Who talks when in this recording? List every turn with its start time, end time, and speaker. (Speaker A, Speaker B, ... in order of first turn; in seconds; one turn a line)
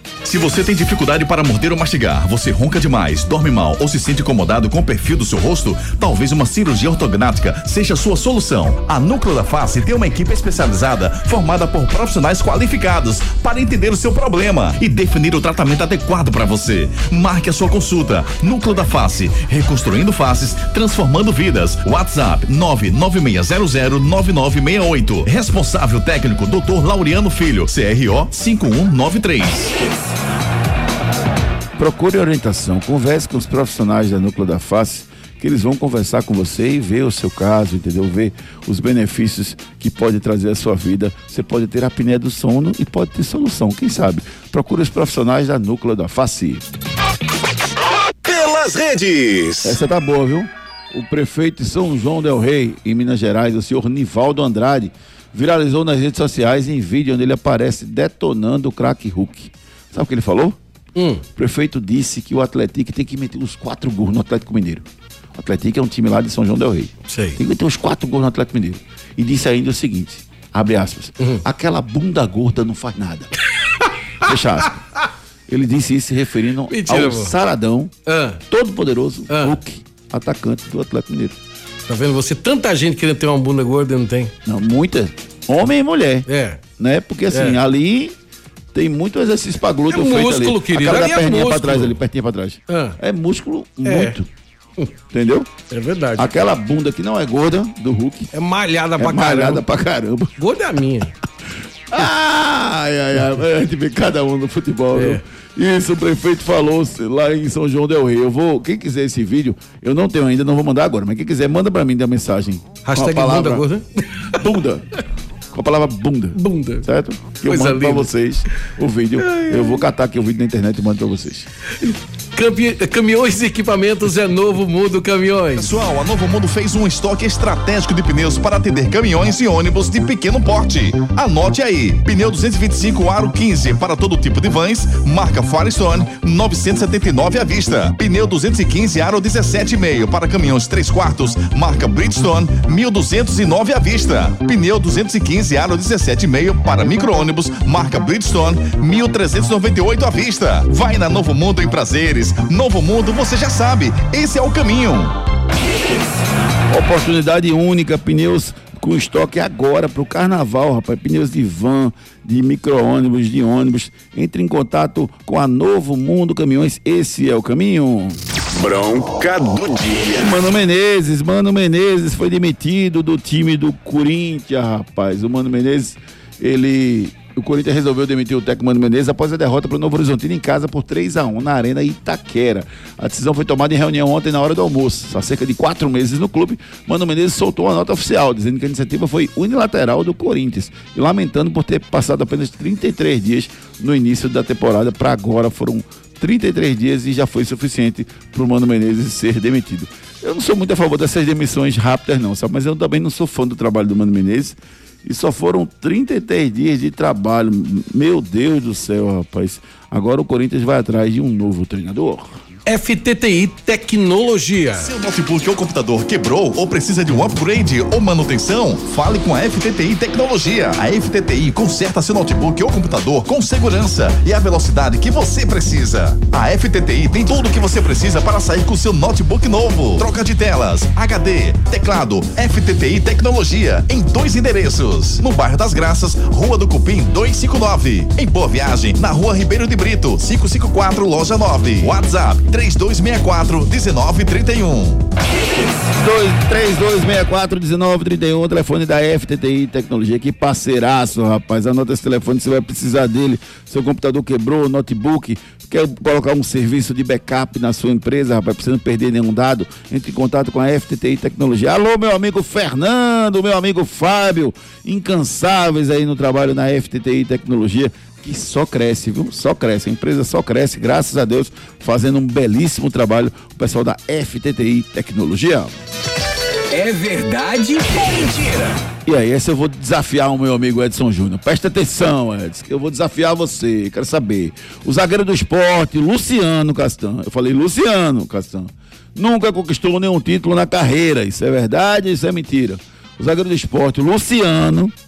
Speaker A: 0.2-29.7
Speaker B: 31.8-46.6
Speaker C: 48.2-49.8
Speaker B: 49.6-60.6
Speaker D: 61.0-61.2
Speaker B: 61.3-73.3
Speaker D: 67.1-67.4
Speaker B: 74.2-74.8
Speaker B: 75.5-77.9
Speaker D: 76.7-77.3
Speaker D: 78.1-78.4
Speaker B: 78.5-81.4
Speaker D: 79.3-79.6
Speaker D: 81.9-84.3
Speaker B: 84.5-86.2
Speaker D: 86.3-86.6
Speaker B: 86.8-88.1
Speaker D: 87.3-87.6
Speaker B: 88.7-94.3
Speaker D: 89.9-92.0
Speaker D: 92.7-93.0
Speaker D: 93.8-94.1
Speaker B: 95.1-95.5
Speaker D: 95.7-96.3
Speaker B: 96.2-98.3
Speaker D: 98.3-99.6
Speaker B: 99.0-100.3
Speaker D: 100.4-101.1
Speaker B: 101.9-113.6
Speaker D: 104.9-105.2
Speaker D: 112.8-114.3
Speaker B: 114.3-114.8
Speaker B: 115.5-121.5
Speaker D: 116.3-116.9
Speaker D: 117.5-118.1
Speaker D: 119.2-119.8
Speaker D: 121.8-125.7
Speaker A: 125.5-155.1
Speaker B: 156.7-168.2
Speaker C: 168.5-170.4
Speaker B: 170.1-212.4
Speaker D: 212.7-214.9
Speaker A: 214.8-245.0
Speaker B: 246.0-275.7
Speaker E: 276.7-278.7
Speaker B: 279.0-294.9